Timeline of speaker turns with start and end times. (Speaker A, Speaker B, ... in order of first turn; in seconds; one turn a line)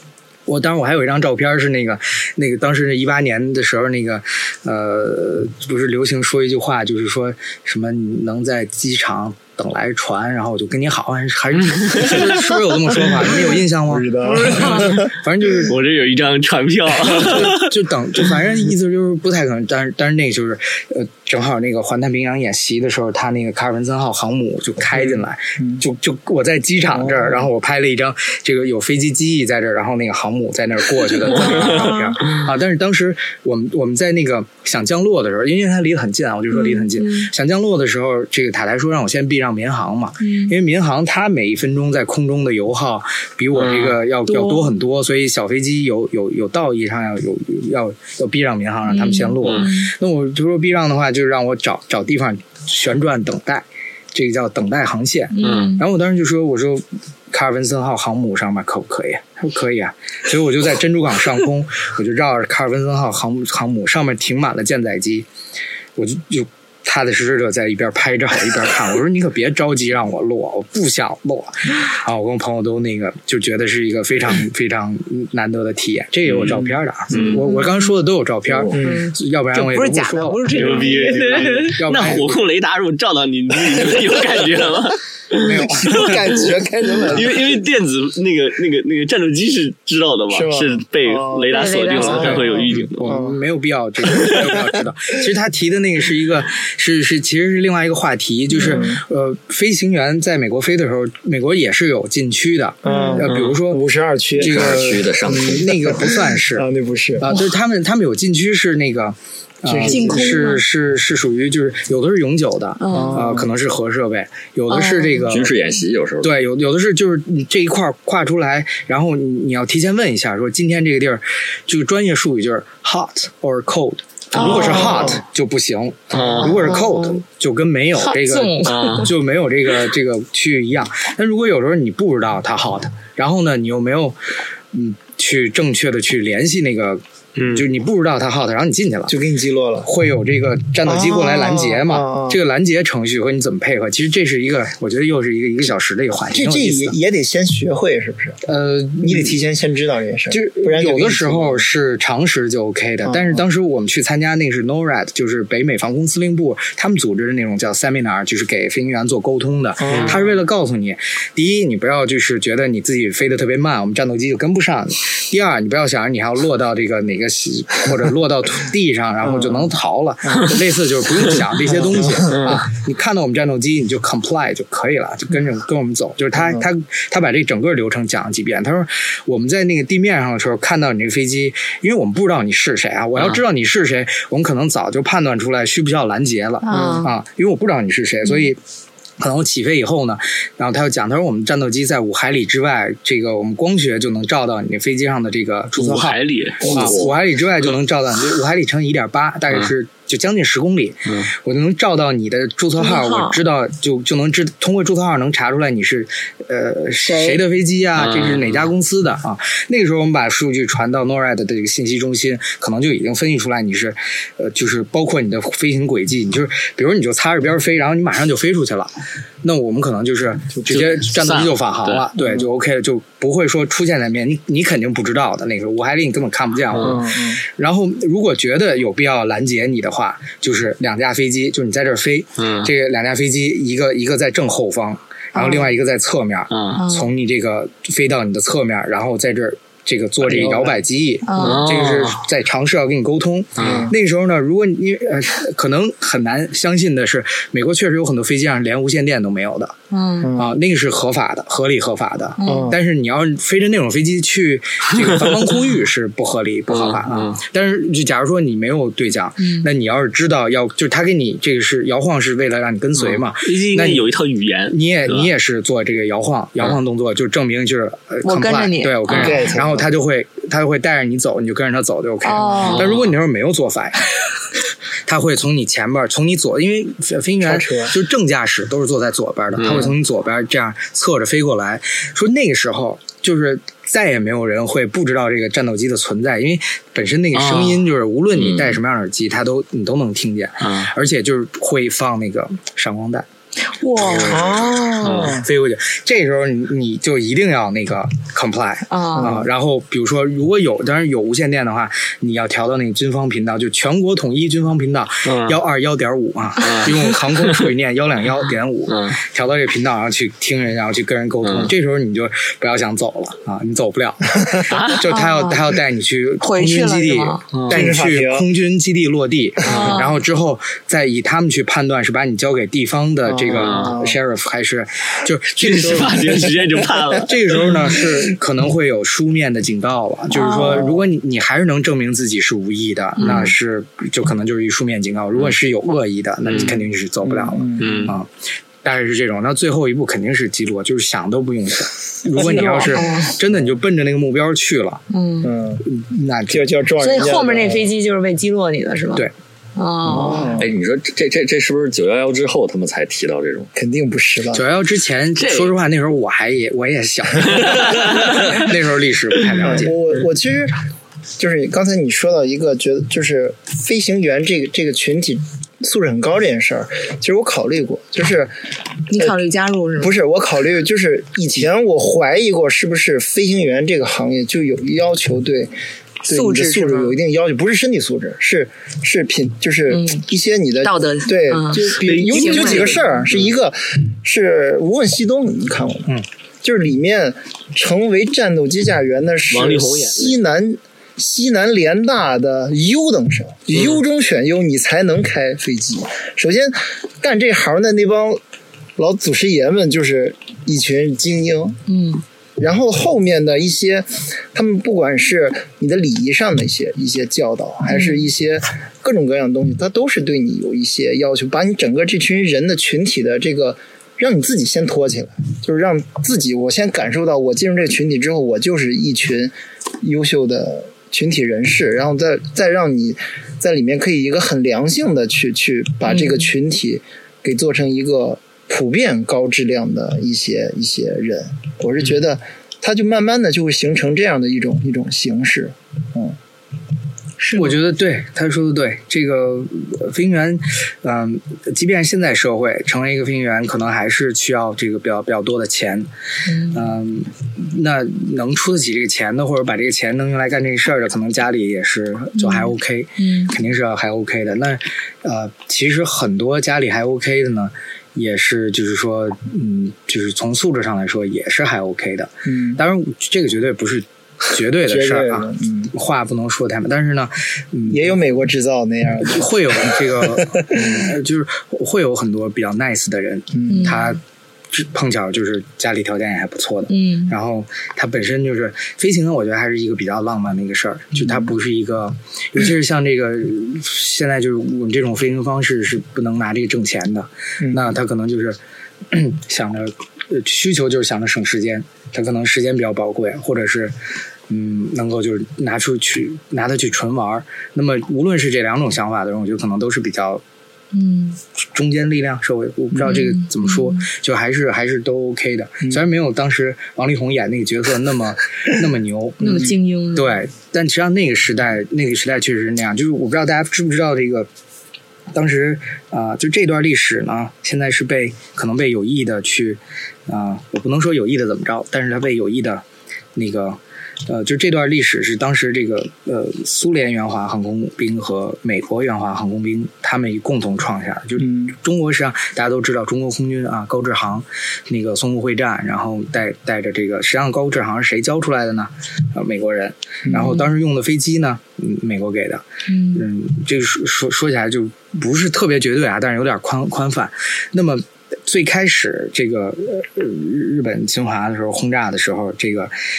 Speaker A: 0.5-15.7
Speaker B: 11.8-12.1
Speaker C: 13.9-15.1
Speaker D: 14.2-15.1
Speaker B: 15.7-17.7
Speaker A: 17.1-65.3
Speaker C: 25.0-25.8
Speaker C: 26.9-27.5
Speaker B: 31.3-31.9
Speaker D: 31.7-32.2
Speaker D: 36.5-37.3
Speaker D: 40.2-40.5
Speaker B: 43.5-44.0
Speaker D: 44.3-44.8
Speaker D: 48.9-49.9
Speaker B: 49.4-49.7
Speaker D: 55.3-55.9
Speaker B: 55.4-55.8
Speaker A: 66.0-82.4
Speaker B: 76.3-77.5
Speaker D: 77.4-77.9
Speaker C: 78.5-79.1
Speaker D: 78.7-81.8
Speaker B: 80.5-86.5
Speaker A: 85.4-86.2
Speaker C: 85.5-87.4
Speaker B: 87.1-93.1
Speaker C: 90.3-93.4
Speaker D: 91.5-92.4
Speaker A: 92.4-103.8
Speaker C: 94.2-94.5
Speaker D: 98.5-98.8
Speaker C: 98.6-99.0
Speaker C: 102.8-107.4
Speaker D: 102.9-103.2
Speaker B: 103.3-103.6
Speaker A: 104.4-106.7
Speaker E: 104.4-105.7
Speaker A: 107.2-115.5
Speaker C: 109.7-110.5
Speaker D: 109.8-110.6
Speaker D: 112.8-113.3
Speaker C: 112.9-113.5
Speaker D: 114.7-115.3
Speaker E: 115.2-116.3
Speaker A: 116.2-134.2
Speaker D: 124.4-124.9
Speaker B: 124.4-125.1
Speaker C: 124.8-125.2
Speaker B: 126.1-126.7
Speaker D: 126.7-127.2
Speaker D: 128.0-129.1
Speaker B: 128.6-129.1
Speaker A: 134.7-139.2
Speaker B: 137.4-137.7
Speaker C: 139.1-139.9
Speaker A: 139.8-147.0
Speaker C: 140.8-142.4
Speaker C: 146.3-148.4
Speaker A: 148.4-149.4
Speaker C: 149.0-151.7
Speaker A: 150.3-188.6
Speaker C: 153.0-153.5
Speaker C: 159.8-160.4
Speaker B: 159.9-160.2
Speaker C: 169.2-169.7
Speaker C: 171.7-172.4
Speaker B: 172.3-172.6
Speaker C: 176.3-176.7
Speaker D: 186.6-187.1
Speaker C: 186.7-187.0
Speaker A: 189.2-249.8
Speaker B: 195.8-197.0
Speaker E: 196.6-197.1
Speaker D: 202.8-203.4
Speaker D: 207.0-207.4
Speaker B: 208.0-208.7
Speaker B: 220.7-222.1
Speaker C: 222.2-222.5
Speaker B: 226.7-227.0
Speaker C: 226.8-227.4
Speaker B: 232.4-232.7
Speaker D: 235.3-235.7
Speaker B: 236.5-236.8
Speaker D: 236.8-237.1
Speaker C: 240.2-240.8
Speaker D: 241.2-241.7
Speaker B: 241.4-242.2
Speaker B: 243.6-243.9
Speaker C: 243.6-243.9
Speaker D: 249.9-250.3
Speaker C: 250.2-250.6
Speaker A: 250.3-264.1
Speaker D: 252.4-252.7
Speaker C: 252.4-252.8
Speaker B: 256.7-257.4
Speaker D: 259.4-259.7
Speaker B: 263.0-265.3
Speaker A: 264.7-274.1
Speaker D: 268.2-269.6
Speaker B: 269.1-269.4
Speaker C: 269.1-269.9
Speaker D: 272.2-272.9
Speaker B: 272.6-273.1
Speaker A: 275.1-293.3
Speaker C: 277.4-278.0
Speaker B: 279.6-279.9
Speaker B: 287.3-288.8
Speaker B: 290.6-290.9
Speaker D: 293.7-295.2
Speaker A: 294.0-294.7
Speaker C: 294.1-295.5
Speaker B: 294.2-294.4
Speaker B: 295.0-295.4
Speaker A: 295.3-326.6
Speaker D: 298.9-299.4
Speaker C: 299.2-299.5
Speaker B: 305.2-305.6
Speaker B: 306.6-307.7
Speaker B: 308.9-309.2
Speaker B: 311.4-311.7
Speaker D: 315.0-315.6
Speaker D: 316.4-317.4
Speaker B: 317.5-317.9
Speaker C: 317.7-318.5
Speaker D: 319.6-320.1
Speaker C: 323.2-324.2
Speaker B: 323.5-323.9
Speaker B: 325.6-328.2
Speaker A: 327.2-338.3
Speaker D: 330.3-330.9
Speaker C: 330.6-331.1
Speaker B: 333.2-333.5
Speaker B: 336.5-336.8
Speaker C: 337.2-338.1
Speaker B: 337.8-338.1
Speaker A: 338.8-345.0
Speaker C: 342.3-343.7
Speaker D: 342.6-343.4
Speaker D: 345.1-345.5
Speaker C: 345.4-345.9
Speaker A: 345.8-346.7
Speaker C: 346.5-347.9
Speaker D: 347.0-350.6
Speaker C: 350.1-350.7
Speaker E: 350.6-353.7
Speaker C: 353.8-354.7
Speaker A: 354.5-359.9
Speaker B: 355.4-355.8
Speaker B: 357.5-358.7
Speaker C: 359.6-360.8
Speaker C: 361.4-368.6
Speaker D: 369.1-370.2
Speaker C: 370.0-398.4
Speaker D: 376.3-377.2
Speaker D: 379.9-380.2
Speaker D: 380.8-383.1
Speaker B: 382.0-383.5
Speaker B: 389.5-390.4
Speaker B: 393.7-394.0
Speaker C: 399.0-401.8
Speaker D: 401.9-402.2
Speaker C: 402.6-436.4
Speaker D: 407.9-408.2
Speaker D: 426.1-426.5
Speaker D: 437.4-437.8
Speaker A: 437.6-446.1
Speaker D: 446.5-446.8
Speaker A: 446.7-468.2
Speaker D: 452.4-453.5
Speaker C: 462.5-462.8
Speaker C: 464.8-465.9
Speaker C: 467.9-471.1
Speaker A: 469.2-488.6
Speaker C: 473.5-474.0
Speaker D: 473.7-474.2
Speaker D: 476.9-477.4
Speaker C: 481.2-481.5
Speaker C: 487.6-487.9
Speaker A: 489.1-493.9
Speaker A: 494.5-500.4
Speaker D: 500.9-501.4
Speaker A: 501.7-514.5
Speaker D: 503.0-504.0
Speaker D: 509.4-510.4
Speaker A: 515.3-522.8
Speaker A: 523.4-552.9
Speaker C: 531.4-531.7
Speaker D: 540.3-540.6
Speaker D: 542.9-543.2